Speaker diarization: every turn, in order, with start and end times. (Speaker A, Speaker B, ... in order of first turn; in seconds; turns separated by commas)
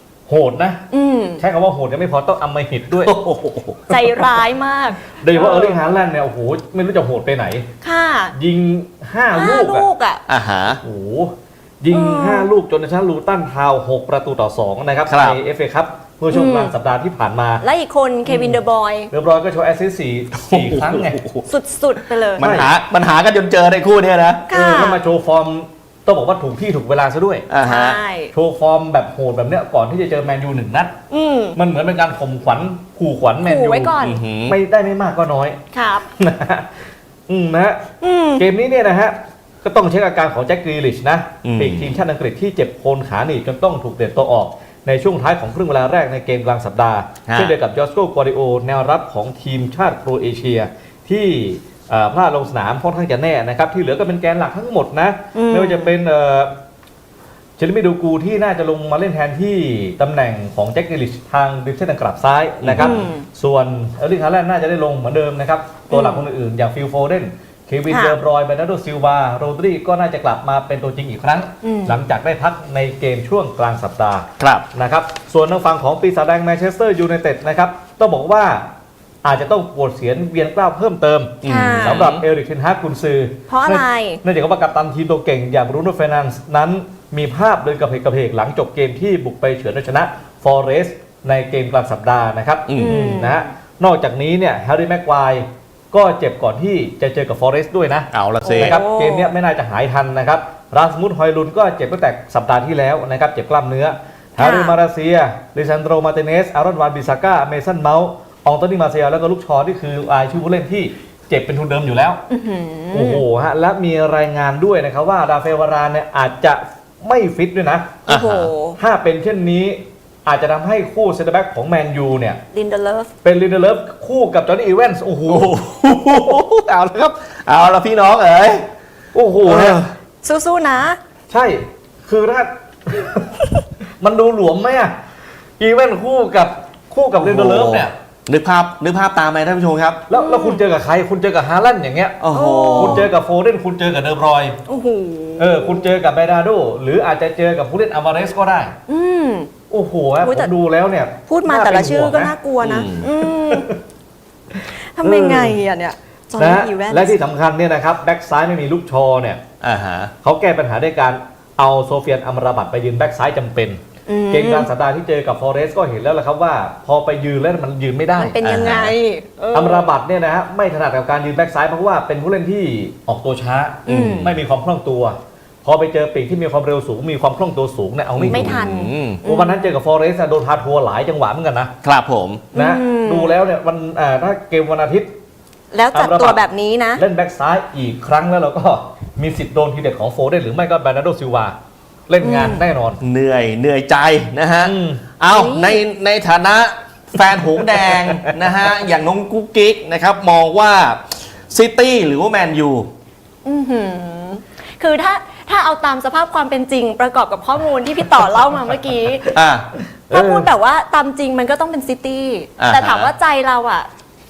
Speaker A: 0.3-0.8, Speaker B: 0.9-1.4, Speaker A: 1.4-3.1, Speaker C: 3.0-3.9, Speaker B: 3.9-5.8, Speaker A: 5.2-7.7, Speaker B: 7.8-8.3, Speaker A: 8.3-9.9, Speaker B: 9.3-10.2, Speaker C: 10.3-10.8, Speaker A: 10.8-17.6, Speaker B: 11.9-12.5, Speaker C: 15.1-15.4, Speaker B: 16.3-16.7, Speaker B: 17.6-19.1, Speaker A: 18.3-21.2, Speaker C: 20.4-21.5, Speaker B: 21.5-22.5, Speaker C: 22.4-24.5, Speaker A: 22.4-22.7, Speaker B: 24.5-25.0, Speaker A: 24.5-27.5, Speaker C: 27.5-28.0, Speaker B: 27.6-28.3, Speaker A: 28.3-31.0, Speaker B: 31.1-31.6, Speaker A: 31.6-35.6, Speaker B: 33.4-34.2, Speaker C: 34.0-34.6, Speaker B: 35.7-36.1, Speaker A: 36.2-37.8, Speaker B: 38.0-38.4, Speaker A: 38.4-56.5, Speaker C: 41.4-42.0, Speaker C: 47.3-47.5, Speaker B: 55.3-55.9, Speaker A: 57.6-78.7, Speaker C: 62.6-63.0, Speaker B: 62.8-63.3, Speaker B: 65.9-66.2, Speaker B: 67.9-68.2, Speaker B: 71.6-72.0, Speaker C: 74.4-74.7, Speaker A: 79.2-112.2, Speaker C: 81.4-82.2, Speaker B: 81.4-82.0, Speaker B: 83.5-84.2, Speaker C: 92.7-93.0, Speaker B: 92.8-93.5, Speaker C: 98.1-98.8, Speaker B: 98.4-99.3, Speaker B: 104.4-104.8, Speaker B: 112.3-113.2, Speaker A: 112.9-118.0, Speaker C: 118.1-118.5, Speaker B: 118.1-118.8, Speaker A: 118.8-122.4, Speaker B: 122.5-123.1, Speaker A: 123.2-125.5, Speaker C: 125.3-128.7, Speaker A: 129.1-129.8, Speaker B: 129.5-131.0, Speaker C: 129.5-129.9, Speaker A: 131.3-133.4, Speaker A: 134.0-134.9, Speaker A: 135.6-137.9, Speaker C: 137.2-140.0, Speaker A: 140.1-142.2, Speaker B: 140.1-140.6, Speaker C: 142.2-143.1, Speaker B: 142.3-143.1, Speaker A: 142.8-144.6, Speaker B: 144.7-145.9, Speaker A: 145.4-148.8, Speaker B: 148.9-149.5, Speaker A: 149.7-152.3, Speaker B: 150.2-150.5, Speaker B: 151.3-153.7, Speaker C: 152.6-153.1, Speaker A: 153.3-153.8, Speaker B: 155.0-157.2, Speaker A: 155.0-155.6, Speaker A: 156.4-159.4, Speaker C: 159.6-160.1, Speaker A: 160.2-163.8, Speaker B: 164.1-164.7, Speaker A: 164.3-168.4, Speaker B: 168.2-169.9, Speaker C: 168.4-169.0, Speaker A: 169.5-178.6, Speaker B: 173.9-174.3, Speaker C: 173.9-174.3, Speaker C: 178.2-179.2, Speaker B: 178.3-179.8, Speaker A: 179.2-181.7, Speaker C: 181.8-182.5, Speaker B: 182.5-183.4, Speaker A: 182.6-185.1, Speaker B: 185.7-187.0, Speaker A: 185.9-186.4, Speaker A: 186.9-191.6, Speaker A: 192.1-193.0, Speaker B: 192.2-192.7, Speaker C: 193.0-202.9, Speaker A: 194.6-195.0, Speaker B: 195.3-195.8, Speaker A: 197.8-198.5, Speaker B: 203.4-209.3, Speaker C: 209.3-209.7, Speaker B: 210.1-213.9, Speaker A: 210.1-210.5, Speaker C: 212.6-213.1